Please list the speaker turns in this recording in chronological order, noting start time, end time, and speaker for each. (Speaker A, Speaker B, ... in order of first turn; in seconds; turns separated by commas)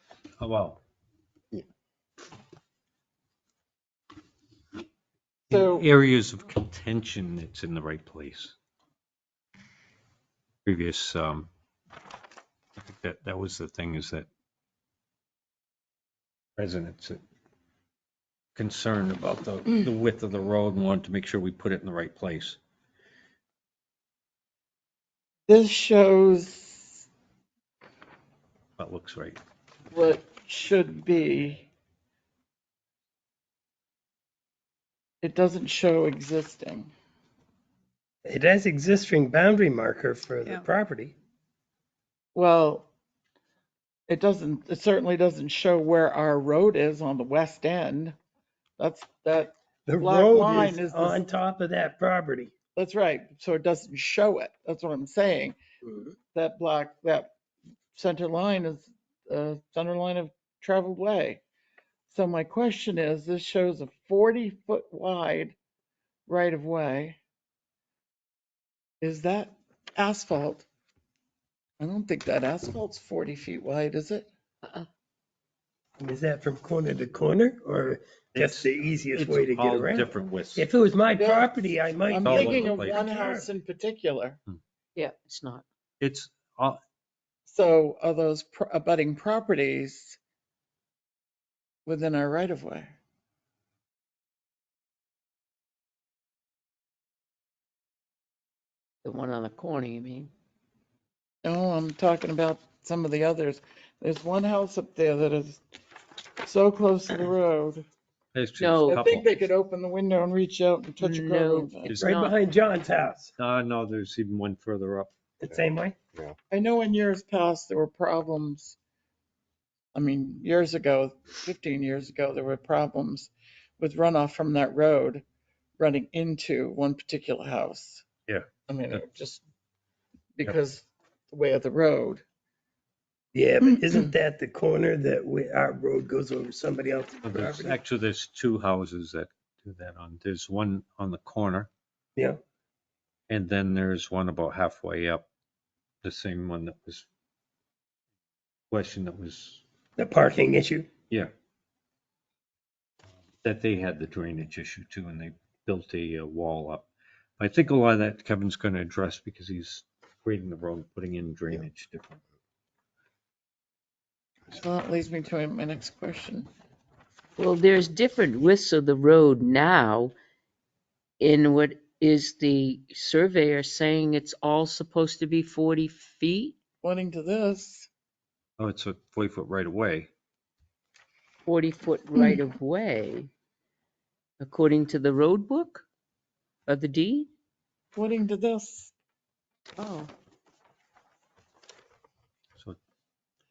Speaker A: 0.4-0.8, Speaker B: 5.5-5.9, Speaker A: 5.5-8.5, Speaker A: 10.6-11.5, Speaker A: 12.8-14.3, Speaker A: 16.6-17.2, Speaker A: 18.5-22.6, Speaker B: 25.5-27.1, Speaker A: 28.8-29.4, Speaker B: 29.9-31.7, Speaker B: 35.2-36.9, Speaker C: 38.2-41.1, Speaker B: 42.3-42.9, Speaker B: 44.1-48.1, Speaker B: 48.8-51.2, Speaker C: 49.9-52.5, Speaker B: 52.7-55.6, Speaker B: 56.3-57.3, Speaker B: 57.9-61.4, Speaker B: 62.1-65.5, Speaker B: 66.3-67.2, Speaker B: 69.0-70.7, Speaker B: 71.8-74.3, Speaker C: 76.0-83.5, Speaker A: 78.3-80.7, Speaker B: 81.2-84.4, Speaker A: 82.2-83.0, Speaker D: 84.9-85.6, Speaker A: 86.0-86.8, Speaker B: 87.5-90.2, Speaker B: 91.8-93.0, Speaker D: 99.0-100.3, Speaker B: 101.4-105.6, Speaker B: 106.4-107.9, Speaker A: 108.3-109.3, Speaker D: 108.6-109.0, Speaker B: 108.9-111.9, Speaker D: 111.0-112.3, Speaker A: 111.9-112.1, Speaker C: 112.0-113.3, Speaker A: 113.4-115.1, Speaker C: 115.4-116.0, Speaker B: 116.5-118.8, Speaker B: 119.9-125.2, Speaker B: 125.8-128.0, Speaker A: 128.3-129.0, Speaker B: 128.7-129.4, Speaker B: 130.3-132.2, Speaker C: 133.3-137.8, Speaker A: 137.2-141.7, Speaker A: 143.3-145.3, Speaker A: 146.0-147.1, Speaker A: 148.7-149.6, Speaker C: 150.0-150.9, Speaker A: 153.4-156.9, Speaker A: 157.4-162.2, Speaker B: 164.5-166.5, Speaker D: 167.4-170.1, Speaker D: 171.2-176.6, Speaker B: 176.8-177.9, Speaker A: 178.6-180.1, Speaker D: 181.4-183.3, Speaker D: 184.4-185.8, Speaker D: 186.7-187.3, Speaker B: 187.9-188.9, Speaker D: 189.8-190.1